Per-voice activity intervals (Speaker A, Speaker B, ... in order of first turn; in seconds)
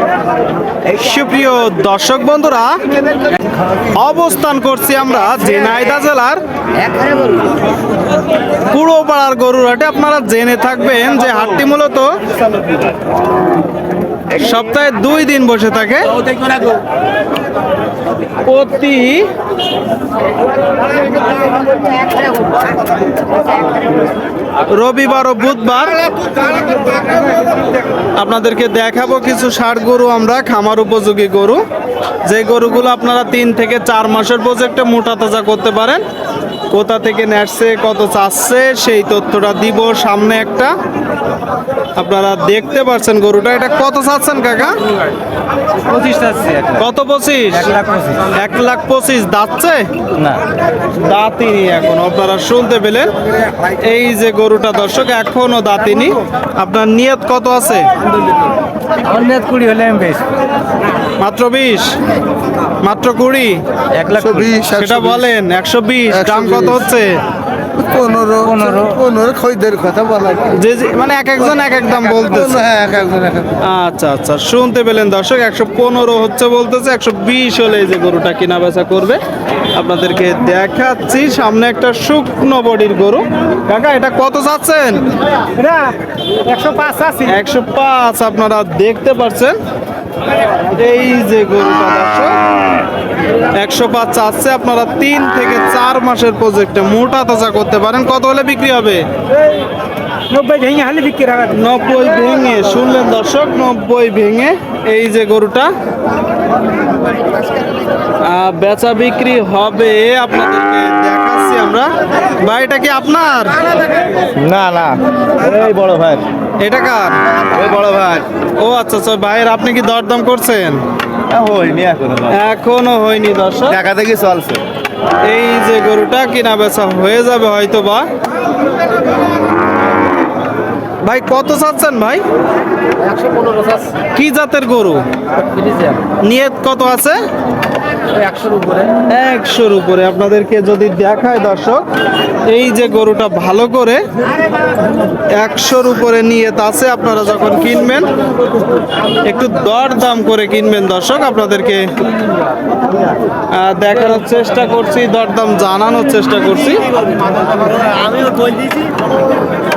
Speaker A: 0.9-2.8, 4.0-6.4, 8.7-12.1, 14.3-16.1, 18.5-19.3, 24.7-26.0, 28.2-31.6, 32.3-36.0, 36.7-40.7, 42.0-44.8, 46.7-47.7, 48.3-49.9, 51.0-53.1, 53.7-57.9, 61.2-62.0, 62.8-63.6, 64.6-67.2, 70.5-72.7, 73.6-79.2, 79.7-85.0, 87.3-89.5, 90.7-92.3, 93.5-99.0, 101.5-105.7, 108.2-113.6, 116.6-117.2, 118.6-120.8, 122.3-123.8, 125.2-128.1, 131.0-132.2, 134.1-135.0, 136.2-137.2, 139.1-141.8, 142.5-144.0, 145.3-148.1, 149.2-151.9, 153.5-156.8
Speaker B: 6.8-7.4, 45.9-46.8, 47.6-48.2, 59.0-60.2, 64.0-64.6, 68.4-69.0, 85.6-85.9, 86.5-87.3, 100.3-101.5, 114.4-114.9, 121.4-121.8, 123.9-124.5, 133.1-133.9, 135.6-135.9, 138.1-138.9, 157.9-158.6
Speaker C: 64.2-65.2, 66.2-66.7, 67.8-70.5, 72.2-73.5, 114.5-116.2, 117.5-118.2, 121.3-122.3, 123.7-124.6